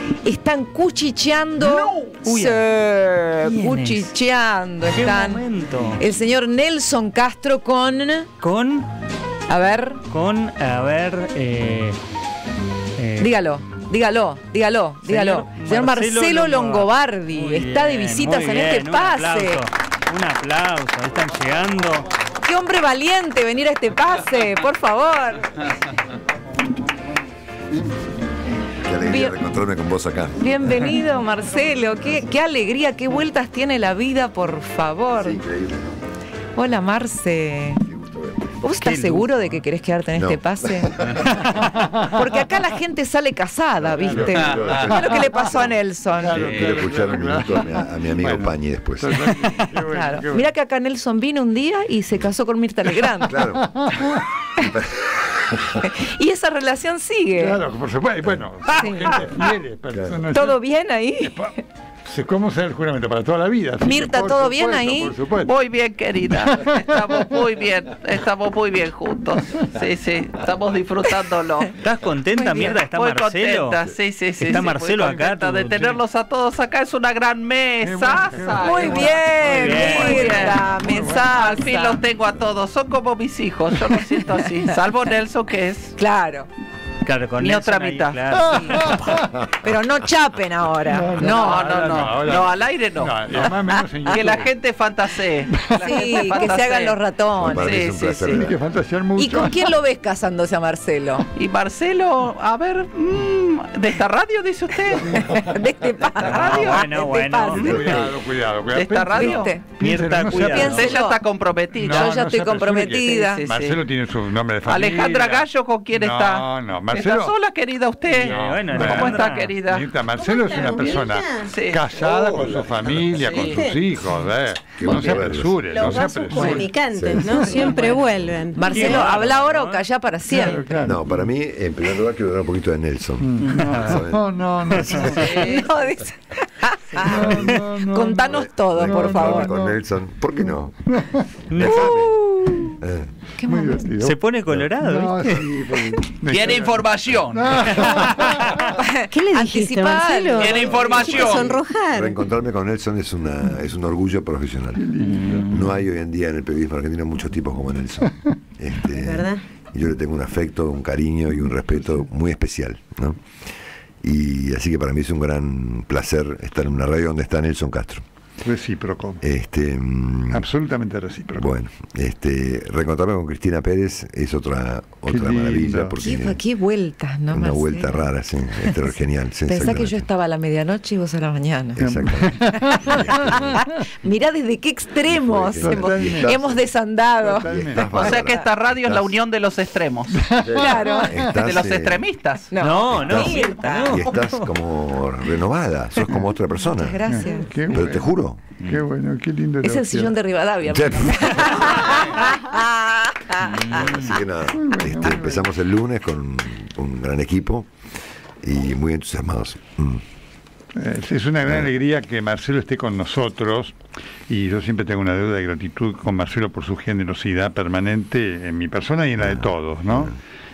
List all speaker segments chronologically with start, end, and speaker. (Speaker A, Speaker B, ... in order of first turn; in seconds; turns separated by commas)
Speaker A: 0.2-5.4, Speaker B: 1.6-2.3, Speaker C: 2.3-2.6, Speaker C: 3.4-4.1, Speaker C: 4.9-6.0, Speaker A: 6.0-8.3, Speaker C: 8.4-8.9, Speaker A: 9.5-10.0, Speaker C: 10.1-12.0, Speaker C: 13.0-13.3, Speaker A: 13.2-19.6, Speaker C: 15.1-22.1, Speaker A: 22.4-25.6, Speaker D: 28.8-30.7, Speaker A: 29.0-29.3, Speaker A: 30.4-35.4, Speaker D: 35.2-36.0, Speaker A: 36.5-37.8, Speaker D: 37.9-38.5, Speaker A: 38.6-46.4, Speaker C: 38.8-39.3, Speaker D: 40.1-41.5, Speaker E: 41.5-42.2, Speaker D: 43.8-45.7, Speaker B: 44.2-45.2, Speaker E: 46.2-50.5, Speaker D: 46.3-49.5, Speaker B: 46.3-46.8, Speaker A: 49.7-53.4, Speaker D: 53.2-53.8, Speaker E: 53.6-54.2, Speaker D: 54.6-55.8, Speaker A: 55.8-57.6, Speaker E: 57.4-60.6, Speaker A: 58.7-59.5, Speaker D: 59.9-60.2, Speaker A: 60.3-61.5, Speaker E: 61.2-61.5, Speaker E: 62.0-65.5, Speaker A: 63.8-65.1, Speaker B: 65.4-71.8, Speaker E: 66.3-67.3, Speaker C: 71.8-73.8, Speaker A: 72.4-72.7, Speaker B: 72.5-85.9, Speaker C: 74.4-76.0, Speaker E: 77.8-81.2, Speaker A: 78.6-82.0, Speaker C: 79.4-80.5, Speaker A: 86.0-86.5, Speaker C: 87.0-88.9, Speaker B: 87.4-88.4, Speaker A: 88.5-92.0, Speaker E: 88.5-89.1, Speaker E: 90.8-94.5, Speaker B: 91.2-97.0, Speaker A: 93.4-94.2, Speaker E: 95.5-95.8, Speaker A: 95.8-97.8, Speaker D: 97.4-98.5, Speaker B: 97.5-98.5, Speaker E: 98.3-99.7, Speaker A: 99.2-101.3, Speaker B: 101.3-105.4, Speaker A: 105.1-108.0, Speaker B: 106.2-106.9, Speaker C: 106.3-108.0, Speaker E: 107.5-110.9, Speaker B: 108.7-109.5, Speaker A: 109.1-109.6, Speaker C: 109.8-111.0, Speaker A: 110.3-111.2, Speaker B: 110.4-113.8, Speaker E: 111.7-117.3, Speaker A: 111.9-113.4, Speaker B: 114.6-119.9, Speaker E: 118.2-126.7, Speaker C: 118.2-119.5, Speaker F: 120.2-121.5, Speaker B: 121.4-123.6, Speaker D: 122.2-123.0, Speaker F: 123.2-123.8, Speaker D: 124.8-126.0, Speaker F: 124.9-125.2, Speaker F: 125.7-129.1, Speaker A: 126.3-126.6, Speaker D: 126.9-127.5, Speaker A: 127.4-128.0, Speaker A: 128.5-130.8, Speaker C: 128.7-129.8, Speaker E: 130.3-131.2, Speaker C: 130.3-130.8, Speaker D: 130.8-135.2, Speaker E: 133.2-135.4, Speaker C: 133.6-134.0, Speaker A: 135.0-139.6, Speaker F: 135.1-135.7, Speaker E: 137.0-139.7, Speaker D: 137.1-137.5, Speaker D: 138.2-140.9, Speaker E: 140.9-141.3, Speaker C: 141.5-142.0, Speaker D: 141.5-142.2, Speaker A: 141.7-142.8, Speaker D: 142.8-143.1, Speaker A: 143.4-143.8, Speaker E: 143.4-148.7, Speaker C: 144.0-145.6, Speaker B: 146.2-148.5, Speaker A: 148.8-150.7, Speaker F: 149.1-152.2, Speaker B: 150.4-151.6, Speaker D: 150.9-154.9, Speaker E: 154.8-155.5, Speaker B: 155.0-155.8, Speaker D: 155.5-163.3, Speaker F: 158.9-159.4, Speaker D: 164.0-168.0, Speaker E: 168.4-169.2, Speaker D: 169.2-170.5, Speaker E: 170.3-171.5, Speaker D: 171.4-176.4, Speaker E: 175.1-176.0, Speaker A: 176.0-178.8, Speaker D: 177.3-180.0, Speaker A: 179.4-188.4, Speaker D: 181.8-183.6, Speaker E: 181.8-183.3, Speaker D: 185.0-186.7, Speaker E: 185.6-186.3, Speaker E: 187.2-187.8, Speaker D: 187.4-189.1, Speaker B: 187.8-190.2, Speaker E: 190.1-191.3, Speaker D: 190.4-192.0, Speaker A: 190.5-191.1, Speaker B: 191.3-193.8, Speaker A: 192.5-194.0, Speaker C: 192.6-194.5, Speaker D: 192.9-197.0, Speaker A: 196.8-197.5, Speaker E: 197.0-200.2, Speaker D: 197.7-198.5, Speaker A: 199.6-203.6, Speaker D: 200.7-201.7, Speaker B: 201.8-202.2, Speaker B: 203.4-204.2, Speaker D: 203.7-207.7, Speaker E: 204.5-205.4, Speaker D: 208.4-210.0, Speaker E: 210.8-213.8, Speaker E: 214.3-220.1, Speaker D: 219.2-220.1